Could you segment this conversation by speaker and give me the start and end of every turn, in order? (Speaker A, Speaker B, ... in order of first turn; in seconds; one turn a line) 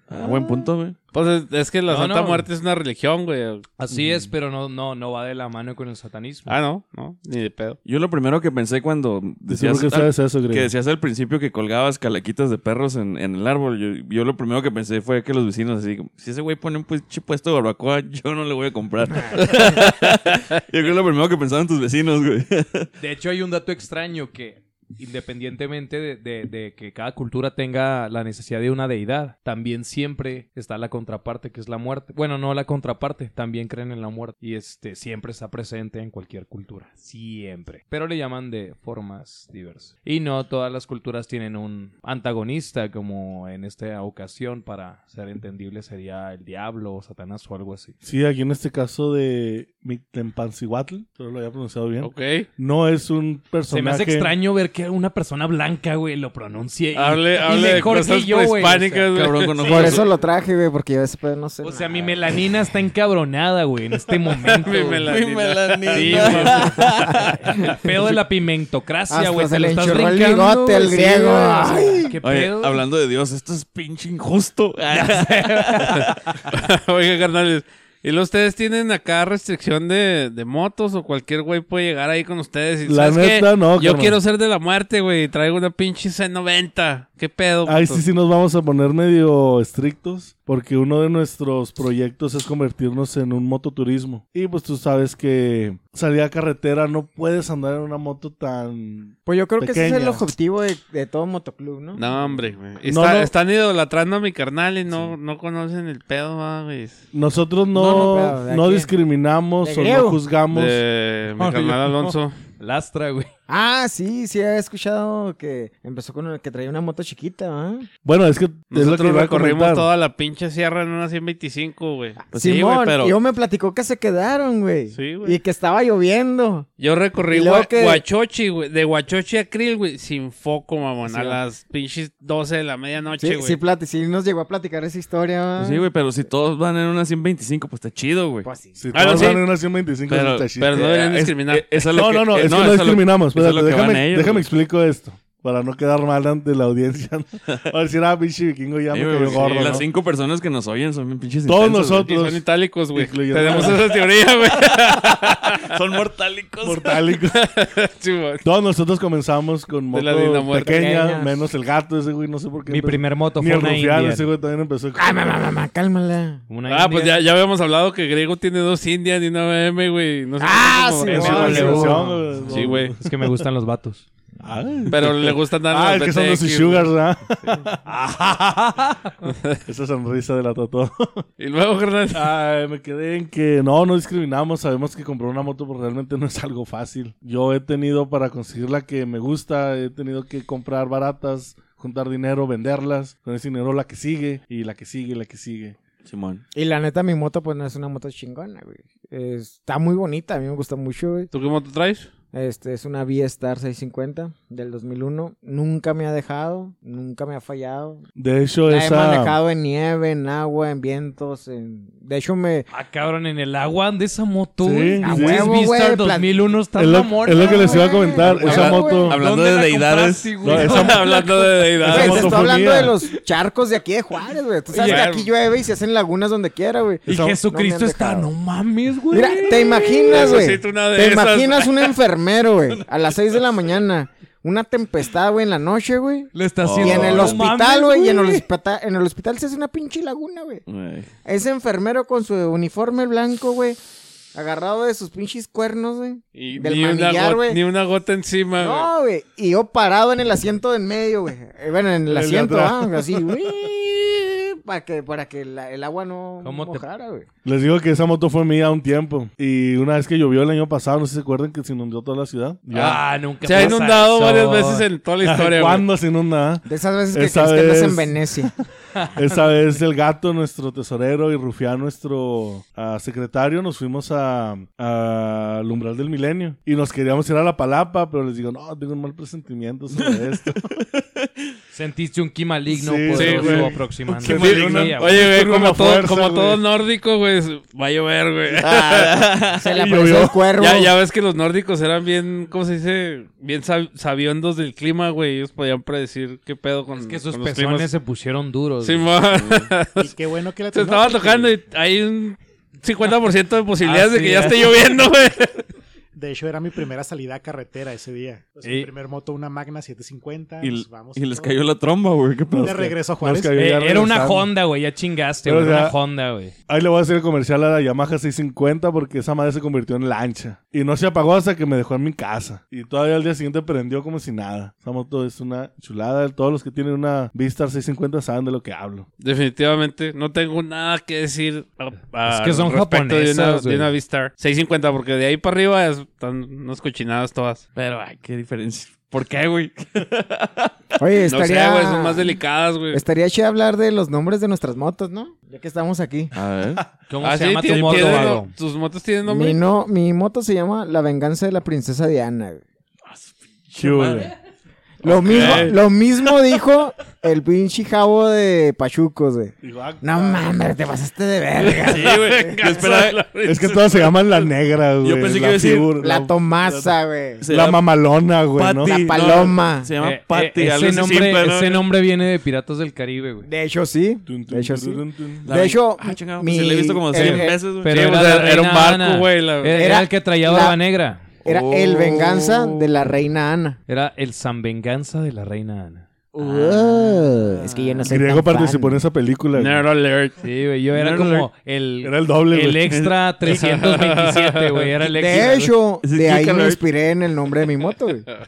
Speaker A: 0.1-1.0
Speaker B: 0.2-0.7
Speaker C: 1.1-3.7
Speaker D: 1.9-2.5
Speaker D: 3.8-6.5
Speaker C: 6.5-7.8
Speaker A: 7.8-22.9
Speaker E: 9.5-10.7
Speaker C: 19.4-19.7
Speaker D: 23.0-47.9
Speaker E: 48.0-54.3
Speaker C: 52.0-52.5
Speaker D: 53.7-59.1
Speaker C: 57.0-60.0
Speaker A: 59.1-60.0
Speaker B: 59.6-62.3
Speaker D: 61.6-65.1
Speaker C: 64.4-67.1
Speaker A: 65.1-67.3
Speaker D: 65.9-72.8
Speaker B: 69.1-72.2
Speaker A: 72.2-76.4
Speaker D: 74.9-76.1
Speaker C: 76.5-88.0
Speaker E: 82.8-84.2
Speaker E: 87.7-100.2
Speaker B: 99.3-102.1
Speaker C: 102.0-107.0
Speaker E: 102.8-103.3
Speaker E: 107.1-110.8
Speaker B: 107.7-108.9
Speaker B: 109.6-110.2
Speaker C: 110.5-112.3
Speaker D: 111.4-113.3
Speaker E: 111.4-111.7
Speaker B: 113.5-117.9
Speaker E: 118.0-119.9
Speaker C: 118.7-122.2
Speaker B: 122.2-126.7
Speaker A: 122.3-123.2
Speaker C: 124.9-125.4
Speaker C: 126.8-133.6
Speaker B: 127.3-128.0
Speaker B: 131.1-131.4
Speaker B: 133.2-135.9
Speaker A: 135.6-138.5
Speaker B: 138.4-138.8
Speaker E: 138.8-140.9
Speaker C: 138.9-139.4
Speaker A: 140.1-144.5
Speaker C: 140.6-141.8
Speaker E: 141.9-149.9
Speaker A: 148.9-152.1
Speaker C: 149.3-149.8
Speaker E: 151.5-152.4
Speaker C: 152.1-155.7
Speaker E: 152.9-153.9
Speaker A: 154.7-157.1
Speaker E: 156.6-157.4
Speaker C: 157.3-158.4
Speaker E: 158.4-165.1
Speaker C: 159.9-160.9
Speaker B: 160.7-161.4
Speaker D: 162.7-164.3
Speaker B: 165.0-166.4
Speaker D: 166.5-167.2
Speaker C: 166.7-172.9
Speaker B: 170.4-172.2
Speaker D: 171.1-172.1
Speaker E: 171.2-173.4
Speaker D: 173.0-174.0
Speaker E: 174.4-179.1
Speaker C: 174.9-176.9
Speaker C: 179.2-179.6
Speaker E: 179.7-181.2
Speaker C: 181.4-182.3
Speaker E: 182.1-195.8
Speaker A: 196.1-196.4
Speaker B: 196.5-201.3
Speaker C: 201.3-202.1
Speaker B: 202.3-208.0
Speaker E: 208.2-209.4
Speaker B: 208.7-212.7
Speaker D: 212.7-222.2
Speaker E: 214.6-215.5
Speaker B: 215.0-216.4
Speaker E: 216.8-219.2
Speaker B: 217.4-219.2
Speaker A: 219.1-220.7
Speaker E: 220.4-221.1
Speaker C: 220.6-222.3
Speaker E: 221.8-223.1
Speaker B: 221.9-228.3
Speaker D: 224.7-225.1
Speaker C: 224.8-225.3
Speaker E: 227.1-227.4
Speaker D: 227.1-230.1
Speaker B: 229.1-240.6
Speaker C: 230.1-231.9
Speaker D: 236.3-238.4
Speaker A: 236.6-237.4
Speaker A: 240.7-241.1
Speaker B: 241.2-243.8
Speaker B: 244.3-247.6
Speaker C: 246.4-248.9
Speaker B: 248.6-257.3
Speaker E: 252.1-253.3
Speaker D: 256.4-256.8
Speaker E: 257.4-263.0
Speaker D: 262.7-264.9
Speaker C: 262.8-265.9
Speaker E: 265.2-268.5
Speaker B: 266.7-268.5
Speaker D: 269.0-269.8
Speaker E: 269.1-280.6
Speaker A: 279.9-281.5
Speaker D: 281.7-285.2
Speaker E: 282.7-286.6
Speaker C: 283.2-283.7
Speaker C: 284.2-289.2
Speaker A: 284.3-284.7
Speaker A: 288.5-290.2
Speaker B: 289.6-290.9
Speaker E: 289.8-290.4
Speaker C: 290.6-297.9
Speaker D: 296.9-299.1
Speaker C: 298.8-300.1
Speaker A: 299.3-299.7
Speaker F: 300.0-301.6
Speaker C: 300.7-305.7
Speaker D: 303.8-304.8
Speaker F: 306.1-311.7
Speaker D: 308.6-308.9
Speaker A: 310.6-312.9
Speaker F: 312.5-313.6
Speaker E: 312.6-314.5
Speaker D: 313.5-316.5
Speaker E: 315.4-316.0
Speaker E: 316.7-329.1
Speaker C: 329.2-337.6
Speaker D: 332.3-333.9
Speaker A: 337.8-340.8
Speaker B: 341.0-342.4
Speaker C: 341.3-343.0
Speaker B: 342.9-346.3
Speaker A: 346.3-346.8
Speaker D: 347.1-348.5
Speaker C: 347.2-349.6
Speaker A: 347.7-348.1
Speaker B: 349.3-352.6
Speaker A: 353.1-354.3
Speaker E: 353.8-354.3
Speaker B: 355.0-362.6
Speaker A: 355.0-355.8
Speaker C: 355.3-355.8
Speaker E: 359.6-360.4
Speaker C: 361.6-364.5
Speaker A: 361.9-363.3
Speaker E: 363.4-369.0
Speaker A: 365.0-365.9
Speaker B: 366.0-367.5
Speaker A: 367.4-367.9
Speaker A: 368.6-371.9
Speaker B: 368.8-369.9
Speaker D: 370.0-373.5
Speaker B: 373.4-377.6
Speaker E: 374.3-375.5
Speaker A: 375.4-378.0
Speaker D: 377.2-381.2
Speaker C: 377.9-379.8
Speaker B: 379.7-380.8
Speaker B: 381.4-383.8
Speaker A: 381.4-382.8
Speaker D: 383.9-386.1
Speaker B: 386.4-389.0
Speaker A: 386.4-388.1
Speaker E: 388.1-389.9
Speaker C: 389.6-390.4
Speaker D: 390.4-395.8
Speaker A: 390.9-391.5
Speaker E: 392.0-392.9
Speaker A: 392.9-393.2
Speaker C: 393.4-394.9
Speaker B: 395.1-398.3
Speaker A: 396.0-396.8